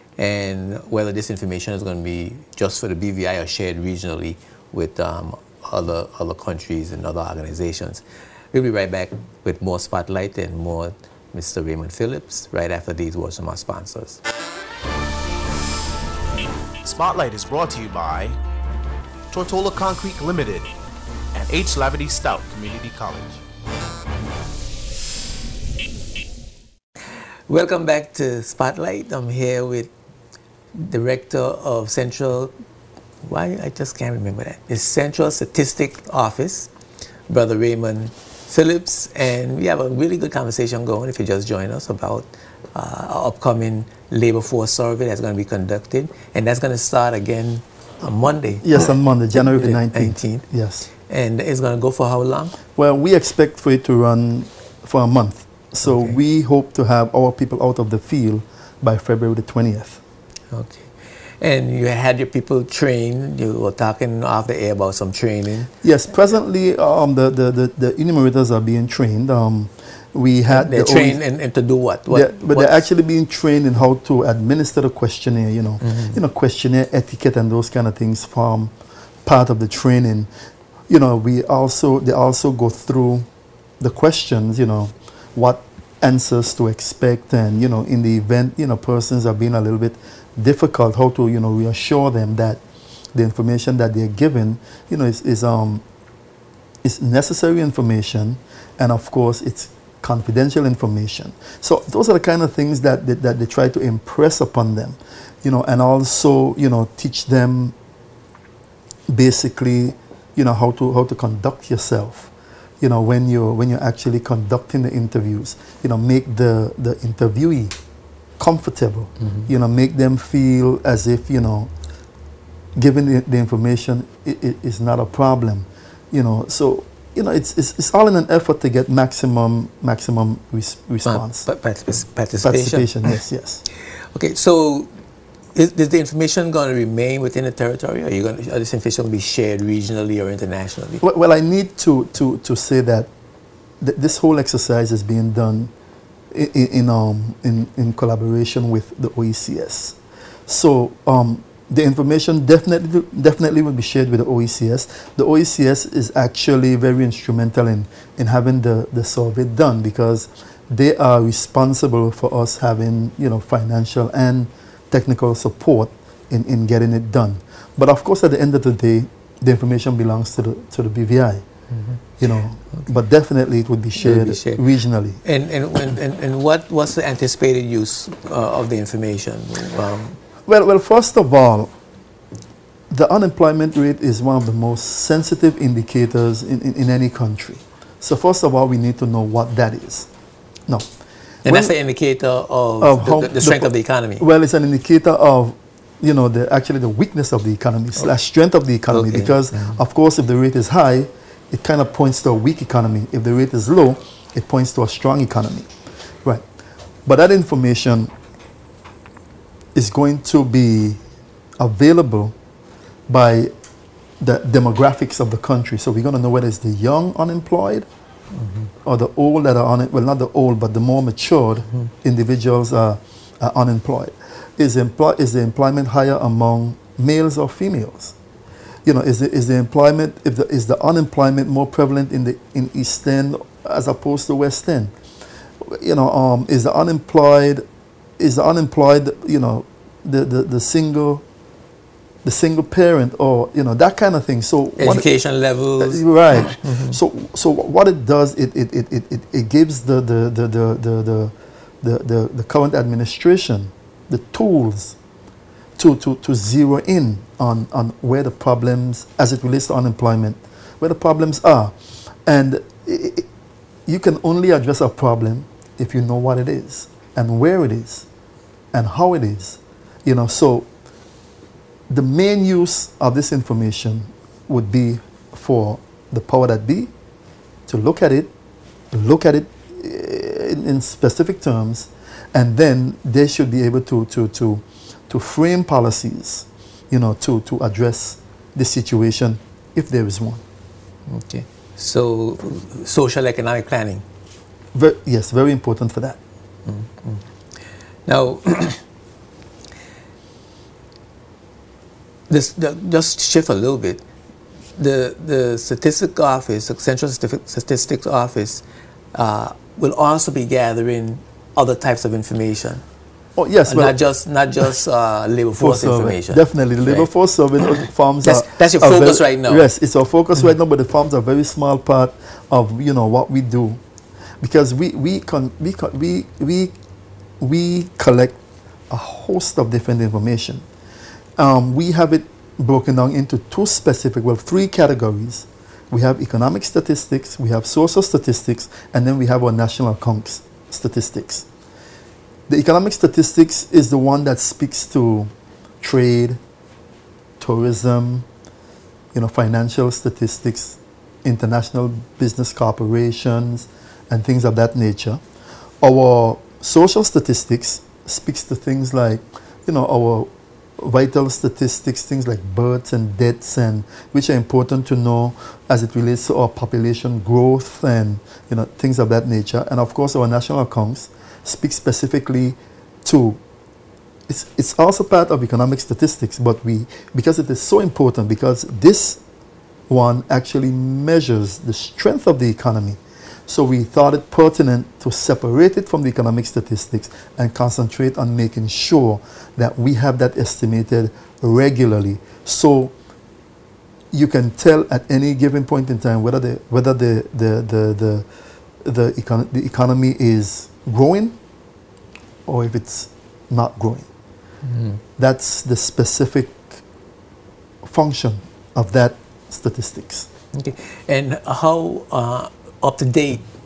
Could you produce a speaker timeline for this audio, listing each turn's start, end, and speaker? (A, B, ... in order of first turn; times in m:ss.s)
0:00.2-0:14.2 A
0:16.8-0:18.4 B
0:19.3-0:20.7 B
0:21.3-0:23.4 B
0:27.5-0:29.9 A
0:30.8-0:32.5 A
0:33.2-0:36.7 A
0:37.3-0:48.8 A
0:48.6-0:50.8 C
0:49.4-0:50.5 A
0:51.1-0:52.5 A
0:52.8-1:00.0 C
0:55.9-0:56.2 A
1:00.5-1:05.7 A
1:05.8-1:11.2 C
1:10.5-1:12.8 A
1:12.1-1:18.7 C
1:15.8-1:16.2 A
1:19.2-1:20.3 C
1:20.9-1:23.3 C
1:23.8-1:32.6 C
1:33.1-1:35.8 C
1:36.8-1:47.8 C
1:49.1-1:57.7 C
1:58.4-2:01.7 C
1:59.2-1:59.5 A
2:02.8-2:11.5 C
2:11.0-2:13.1 A
2:12.4-2:13.6 C
2:14.1-2:14.9 A
2:15.6-2:21.0 A
2:21.0-2:23.1 C
2:23.8-2:25.7 C
2:26.3-2:51.4 C
2:51.7-2:52.0 A
2:52.2-2:55.2 C
2:54.0-2:54.6 A
2:55.2-3:00.2 A
3:00.5-3:01.7 C
3:02.9-3:10.1 C
3:11.4-3:14.2 A
3:11.5-3:11.7 C
3:12.8-3:25.7 C
3:18.9-3:19.8 A
3:27.0-3:28.1 C
3:29.8-3:31.0 C
3:31.6-3:32.4 C
3:33.1-3:33.5 C
3:34.2-3:37.9 C
3:38.4-3:38.7 A
3:38.8-3:48.2 C
3:48.8-3:54.9 C
3:55.6-3:57.6 C
3:58.2-4:01.2 C
4:02.2-4:05.1 C
4:04.8-4:07.0 A
4:05.8-4:15.0 C
4:15.8-4:23.3 C
4:23.9-4:28.1 C
4:28.7-4:30.7 C
4:31.9-4:36.9 C
4:37.7-4:38.3 C
4:38.9-4:50.4 C
4:51.1-4:54.0 A
4:54.7-4:56.2 C
4:56.7-4:57.2 A
4:58.1-4:58.8 A
5:02.3-5:04.0 A
5:04.8-5:08.6 A
5:09.2-5:12.8 A
5:13.4-5:14.0 C
5:13.7-5:17.1 A
5:15.6-5:23.8 C
5:17.6-5:19.7 A
5:24.4-5:26.8 C
5:27.4-5:28.4 C
5:28.9-5:30.7 C
5:31.4-5:41.5 C
5:42.5-5:45.3 C
5:45.8-5:46.4 C
5:47.4-5:48.3 C
5:49.1-5:55.2 C
5:55.8-6:13.4 C
6:14.3-6:19.2 C
6:19.9-6:32.9 C
6:34.1-6:38.3 C
6:38.8-6:41.4 C
6:42.5-6:44.1 C
6:44.6-6:45.0 A
6:45.2-6:46.8 C
6:47.8-6:50.3 C
6:50.5-6:53.5 A